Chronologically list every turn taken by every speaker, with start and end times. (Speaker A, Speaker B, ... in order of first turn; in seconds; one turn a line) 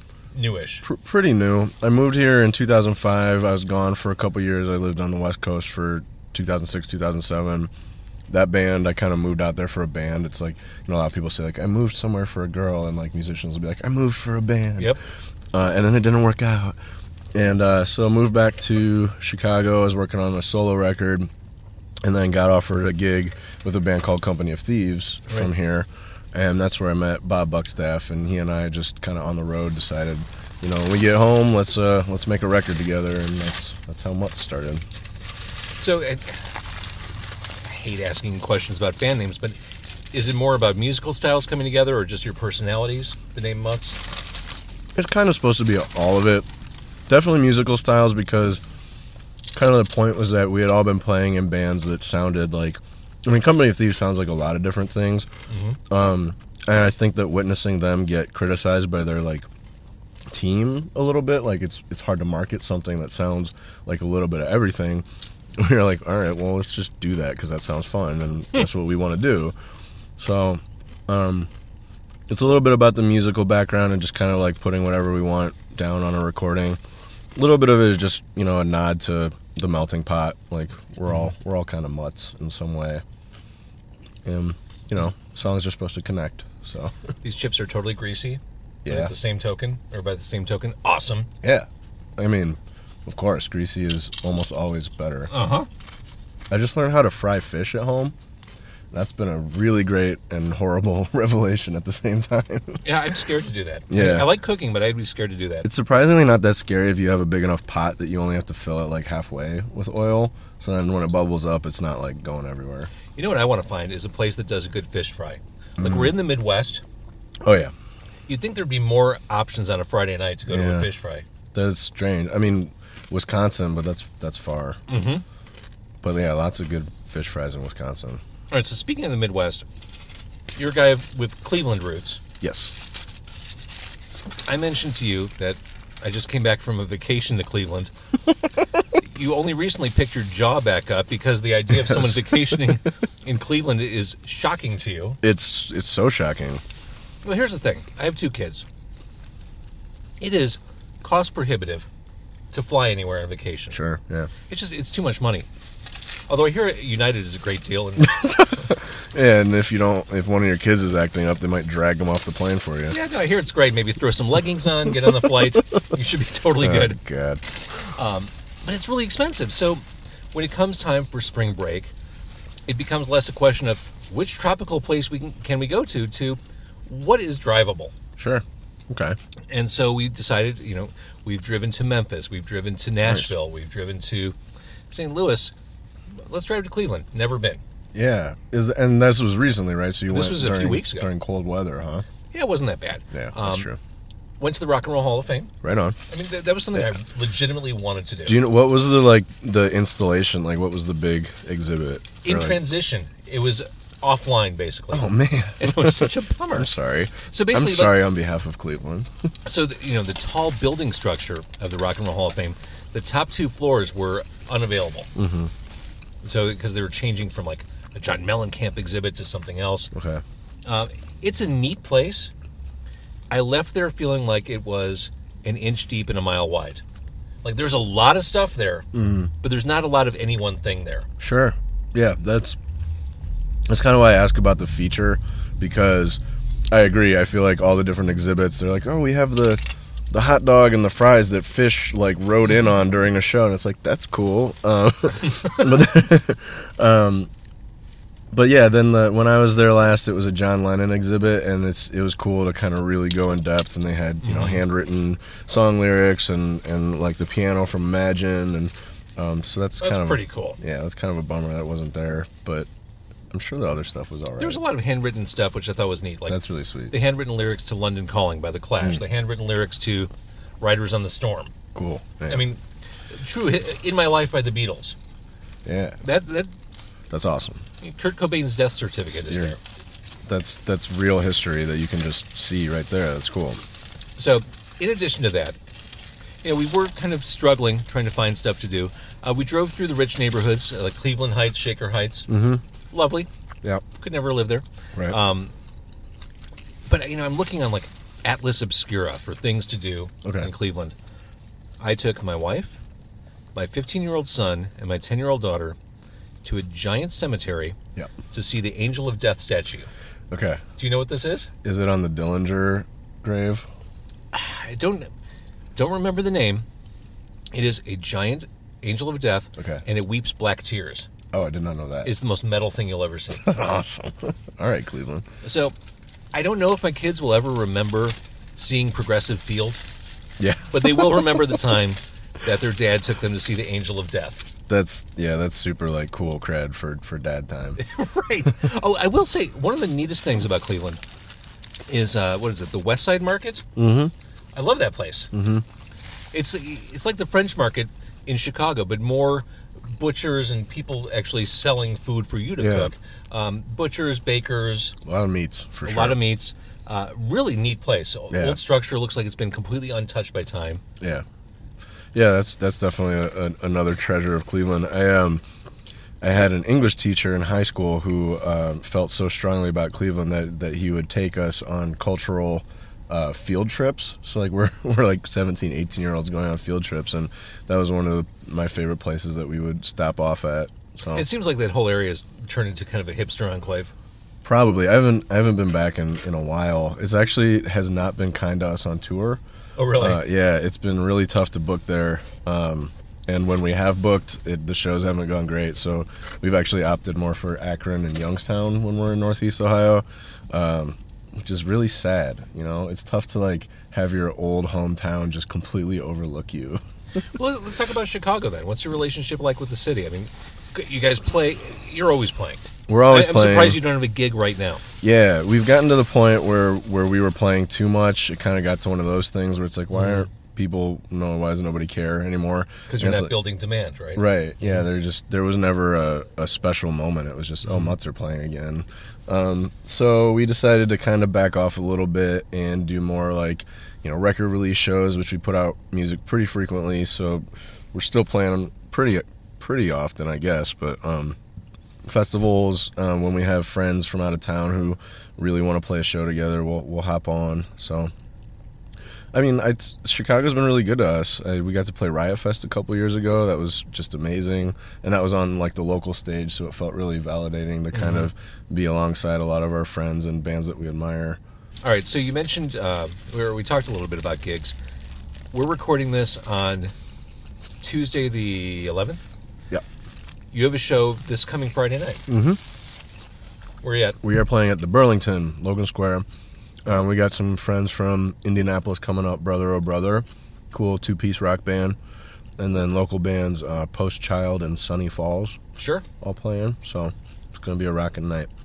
Speaker A: 0.3-0.8
Speaker B: 0.8-7.7
Speaker B: 8.3-14.9
Speaker B: 15.5-16.8
Speaker B: 17.3-21.3
Speaker B: 22.0-34.8
Speaker A: 35.8-36.4
Speaker A: 37.6-39.6
Speaker A: 40.1-44.0
Speaker B: 45.0-46.5
Speaker B: 47.1-48.6
Speaker B: 49.5-55.3
Speaker A: 55.5-55.8
Speaker B: 55.9-59.5
Speaker B: 60.3-65.0
Speaker B: 65.6-69.5
Speaker B: 70.2-71.5
Speaker B: 72.3-76.8
Speaker B: 77.3-83.0
Speaker B: 84.2-86.9
Speaker A: 87.2-91.3
Speaker B: 88.8-89.1
Speaker B: 91.4-95.3
Speaker A: 95.3-95.7
Speaker B: 96.5-98.1
Speaker B: 98.9-102.8
Speaker A: 102.8-105.7
Speaker B: 103.9-104.3
Speaker B: 105.6-112.9
Speaker A: 113.1-116.8
Speaker B: 115.8-116.1
Speaker B: 117.4-117.7
Speaker A: 118.3-121.2
Speaker B: 120.5-120.9
Speaker B: 121.5-124.8
Speaker A: 124.9-125.2
Speaker B: 126.0-128.2
Speaker A: 128.5-129.6
Speaker A: 130.6-132.2
Speaker B: 132.4-132.7
Speaker A: 134.5-137.9
Speaker A: 139.0-145.2
Speaker B: 141.7-142.8
Speaker B: 145.2-146.6
Speaker A: 147.2-148.7
Speaker A: 150.2-151.9
Speaker A: 152.5-153.8
Speaker B: 153.7-154.3
Speaker A: 154.5-155.5
Speaker A: 156.3-158.2
Speaker B: 158.0-163.0
Speaker A: 162.9-167.0
Speaker B: 166.6-167.4
Speaker A: 167.9-171.9
Speaker A: 172.7-177.9
Speaker B: 178.2-179.2
Speaker A: 179.5-184.4
Speaker B: 183.0-183.3
Speaker A: 184.9-185.5
Speaker A: 186.2-187.6
Speaker B: 187.9-192.1
Speaker A: 190.1-191.1
Speaker A: 192.3-193.7
Speaker B: 193.1-193.8
Speaker A: 194.4-195.5
Speaker B: 195.6-196.0
Speaker A: 196.1-198.4
Speaker B: 198.2-202.6
Speaker A: 202.2-206.7
Speaker B: 204.9-209.1
Speaker A: 207.3-208.0
Speaker A: 209.5-215.1
Speaker B: 215.1-215.5
Speaker A: 216.2-219.9
Speaker B: 219.9-220.2
Speaker A: 220.6-222.3
Speaker A: 223.3-226.8
Speaker A: 227.4-228.9
Speaker B: 228.9-229.3
Speaker A: 229.4-231.1
Speaker B: 231.2-232.6
Speaker B: 233.7-236.2
Speaker B: 236.7-247.3
Speaker B: 248.3-262.7
Speaker A: 254.2-254.6
Speaker A: 259.8-260.6
Speaker B: 263.3-264.6
Speaker A: 264.4-266.4
Speaker B: 266.3-266.9
Speaker A: 266.9-271.5
Speaker B: 271.7-272.4
Speaker A: 272.3-272.6
Speaker A: 273.1-275.0
Speaker B: 275.6-276.0
Speaker A: 276.0-276.5
Speaker B: 277.1-277.6
Speaker A: 277.8-279.6
Speaker B: 279.1-279.5
Speaker B: 280.2-283.6
Speaker A: 284.2-285.6
Speaker A: 286.4-292.3
Speaker B: 292.3-292.6
Speaker A: 292.9-293.3
Speaker A: 294.0-295.5
Speaker A: 296.9-300.9
Speaker B: 300.2-300.5
Speaker A: 301.8-302.8
Speaker A: 303.5-305.8
Speaker A: 306.4-307.8
Speaker A: 308.3-309.9
Speaker B: 310.3-310.6
Speaker A: 310.8-311.5
Speaker B: 311.6-313.7
Speaker A: 314.3-315.1
Speaker A: 315.8-316.6
Speaker A: 317.5-321.1
Speaker B: 319.6-319.8
Speaker B: 321.3-322.1
Speaker A: 322.0-323.6
Speaker B: 323.4-325.2
Speaker A: 325.4-325.8
Speaker A: 326.3-329.8
Speaker B: 330.4-331.6
Speaker A: 330.7-334.5
Speaker B: 334.7-337.8
Speaker A: 337.8-341.0
Speaker A: 341.9-343.6
Speaker B: 343.8-344.1
Speaker A: 344.5-345.3
Speaker B: 345.3-345.6
Speaker A: 346.3-354.9
Speaker B: 352.6-352.9
Speaker B: 355.0-356.2
Speaker A: 355.8-360.8
Speaker B: 358.3-358.6
Speaker B: 362.1-365.4
Speaker B: 366.2-381.2
Speaker A: 381.1-383.9
Speaker B: 384.4-389.4
Speaker A: 389.8-390.2
Speaker B: 390.0-406.8
Speaker A: 407.3-414.8
Speaker B: 412.9-413.8
Speaker B: 415.0-423.3
Speaker A: 419.9-420.3
Speaker A: 422.9-424.8
Speaker B: 424.1-441.4
Speaker A: 427.6-427.9
Speaker B: 442.0-448.1
Speaker B: 449.3-461.4
Speaker A: 457.9-458.3
Speaker A: 461.8-464.8
Speaker A: 465.5-466.9
Speaker A: 467.8-469.2
Speaker A: 470.5-472.2
Speaker B: 472.3-472.6
Speaker A: 473.8-474.2
Speaker B: 474.2-476.2
Speaker B: 476.9-482.0
Speaker B: 482.6-485.6
Speaker A: 485.8-486.0
Speaker B: 486.2-488.5